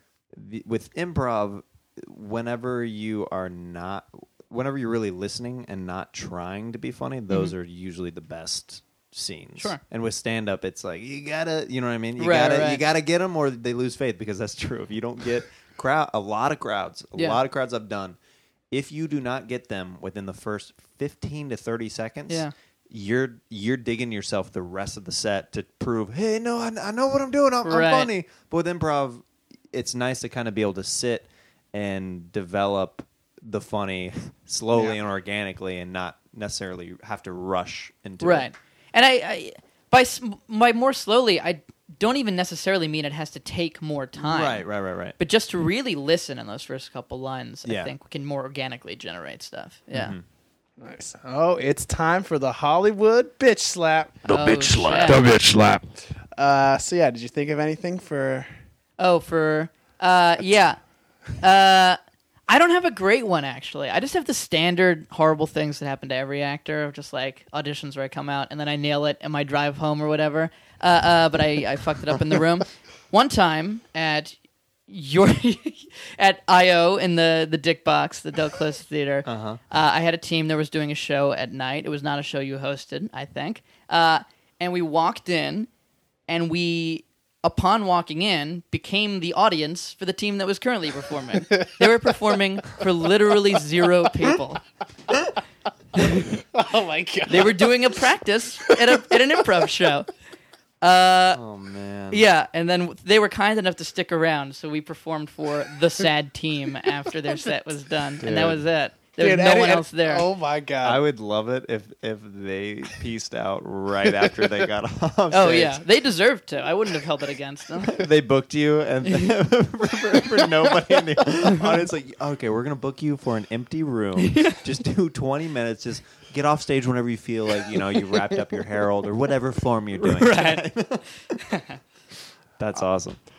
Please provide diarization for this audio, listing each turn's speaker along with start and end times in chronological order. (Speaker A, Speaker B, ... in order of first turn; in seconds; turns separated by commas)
Speaker A: 0.3-18.2, Speaker B: 12.2-12.8, Speaker B: 17.2-17.4, Speaker A: 18.7-38.5, Speaker B: 27.6-28.1, Speaker B: 38.2-44.7, Speaker A: 44.2-45.2, Speaker B: 45.2-50.2, Speaker A: 47.6-47.9, Speaker A: 49.9-50.2, Speaker C: 50.8-54.3, Speaker B: 54.3-55.3, Speaker A: 54.3-55.8, Speaker C: 54.9-55.4, Speaker C: 56.2-58.5, Speaker B: 59.0-60.8, Speaker B: 61.4-74.4, Speaker B: 74.9-85.7, Speaker A: 79.2-79.6, Speaker B: 86.3-94.6, Speaker B: 96.0-96.4, Speaker C: 96.2-97.8, Speaker B: 97.3-100.1, Speaker B: 100.8-101.4, Speaker A: 101.3-102.2, Speaker B: 102.1-110.3, Speaker A: 108.2-108.7, Speaker C: 109.2-111.0, Speaker A: 110.8-115.8, Speaker C: 114.2-114.5, Speaker B: 115.3-118.0, Speaker A: 117.8-131.4, Speaker B: 119.0-119.4, Speaker B: 124.2-124.6, Speaker B: 130.0-130.7, Speaker B: 131.3-131.8, Speaker A: 132.6-133.2